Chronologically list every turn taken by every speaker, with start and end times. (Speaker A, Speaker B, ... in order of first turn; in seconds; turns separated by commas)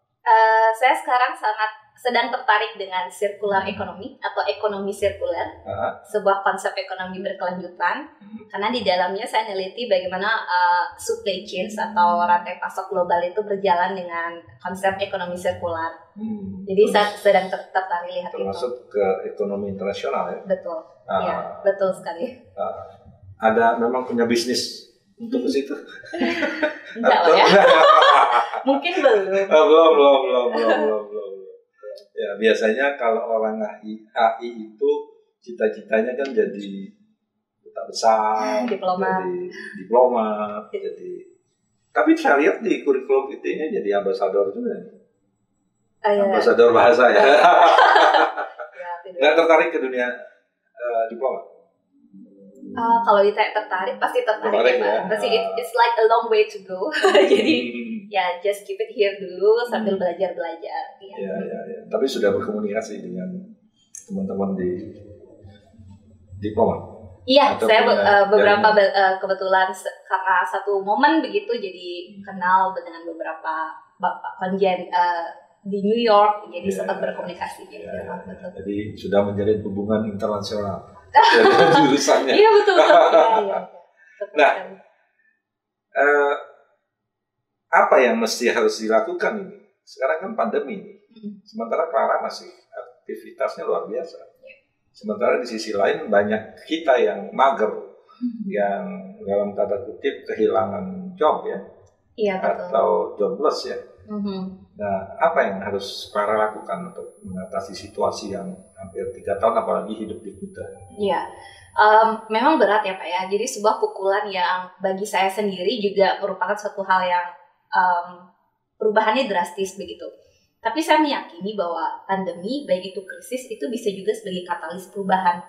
Speaker A: 0.3-5.5, Speaker B: 3.5-3.8, Speaker B: 5.7-6.0, Speaker A: 6.1-16.0, Speaker B: 16.1-17.1, Speaker A: 16.7-18.7, Speaker B: 18.3-20.4, Speaker A: 20.5-22.4, Speaker B: 21.1-21.9, Speaker B: 22.6-36.9, Speaker A: 25.2-25.5, Speaker A: 26.2-29.6, Speaker A: 30.5-30.9, Speaker B: 37.6-41.2, Speaker A: 38.4-39.3, Speaker B: 41.9-44.9, Speaker A: 46.0-46.5, Speaker B: 46.2-48.5, Speaker A: 47.2-49.4, Speaker B: 49.2-50.1, Speaker B: 50.8-51.5, Speaker A: 52.8-61.5, Speaker B: 54.4-55.7, Speaker B: 57.0-58.1, Speaker B: 59.7-60.0, Speaker B: 61.1-63.5, Speaker B: 64.1-65.0, Speaker B: 66.4-66.9, Speaker A: 67.3-78.5, Speaker B: 67.5-68.8, Speaker B: 72.1-72.4, Speaker B: 76.6-83.6, Speaker A: 81.1-84.8, Speaker B: 84.3-84.6, Speaker B: 86.0-86.4, Speaker B: 87.7-94.3, Speaker A: 91.1-91.4, Speaker B: 95.0-97.9, Speaker A: 98.2-98.6, Speaker B: 98.5-101.6, Speaker A: 102.2-102.8, Speaker B: 102.4-103.8, Speaker A: 104.1-104.6, Speaker B: 104.8-110.7, Speaker A: 111.0-111.2, Speaker A: 111.8-118.2, Speaker A: 118.8-120.1, Speaker A: 120.6-125.4